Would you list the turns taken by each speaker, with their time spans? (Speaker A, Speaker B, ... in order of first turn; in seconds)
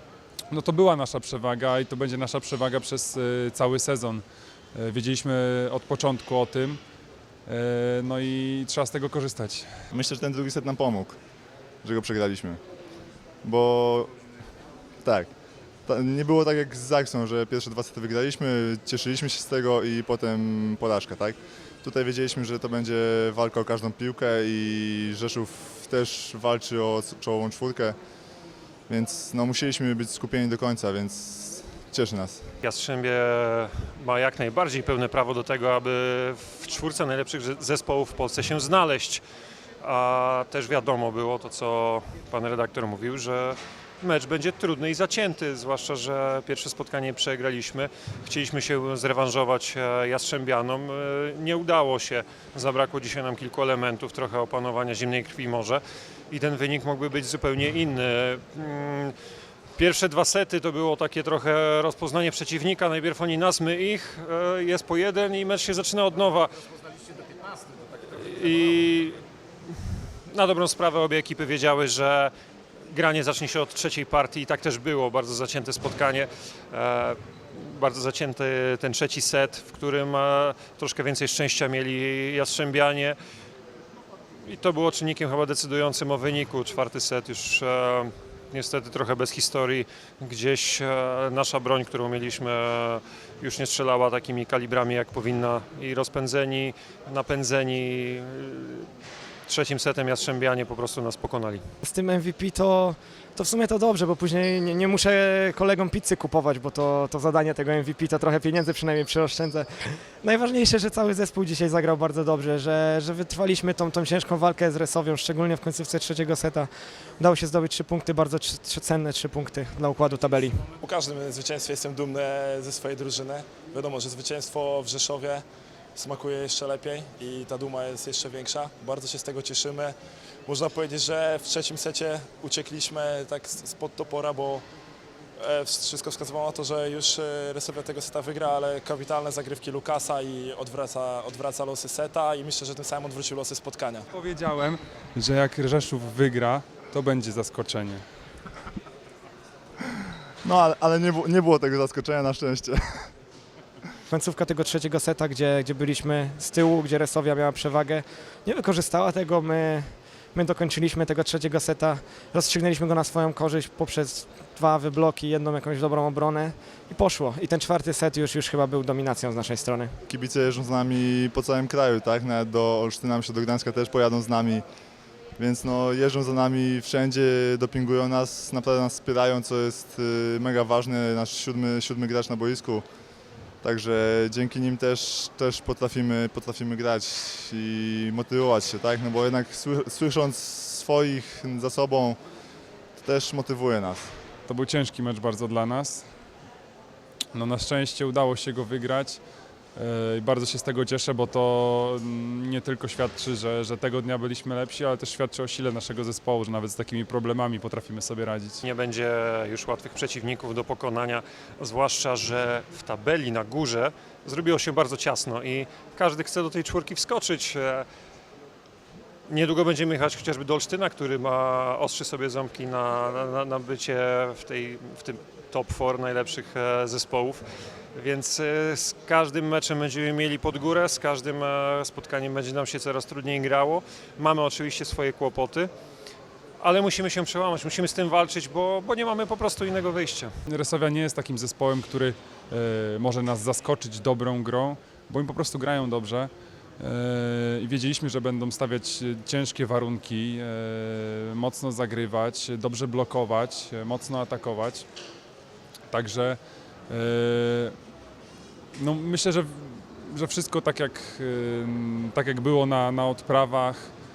Speaker A: 0.5-6.8, 7.5-9.7, 144.1-148.0, 194.5-196.1, 197.3-208.6, 240.5-254.9, 255.9-257.8, 258.8-263.9
Speaker B: 9.9-11.2, 11.8-12.6, 13.4-14.1, 15.0-15.3, 15.9-28.0, 28.9-32.4, 150.4-153.1, 170.1-174.6, 175.4-182.8, 183.6-192.2, 193.0-194.1
Speaker C: 32.6-39.2, 39.8-59.1, 59.8-66.7, 68.0-69.2, 70.2-72.3, 72.9-83.2, 84.4-98.9, 99.5-101.6, 208.6-217.9, 219.3-235.7, 236.6-240.3
Speaker D: 101.8-120.6, 154.1-170.0
Speaker E: 120.8-125.5, 126.0-129.9, 130.5-134.7, 135.4-144.1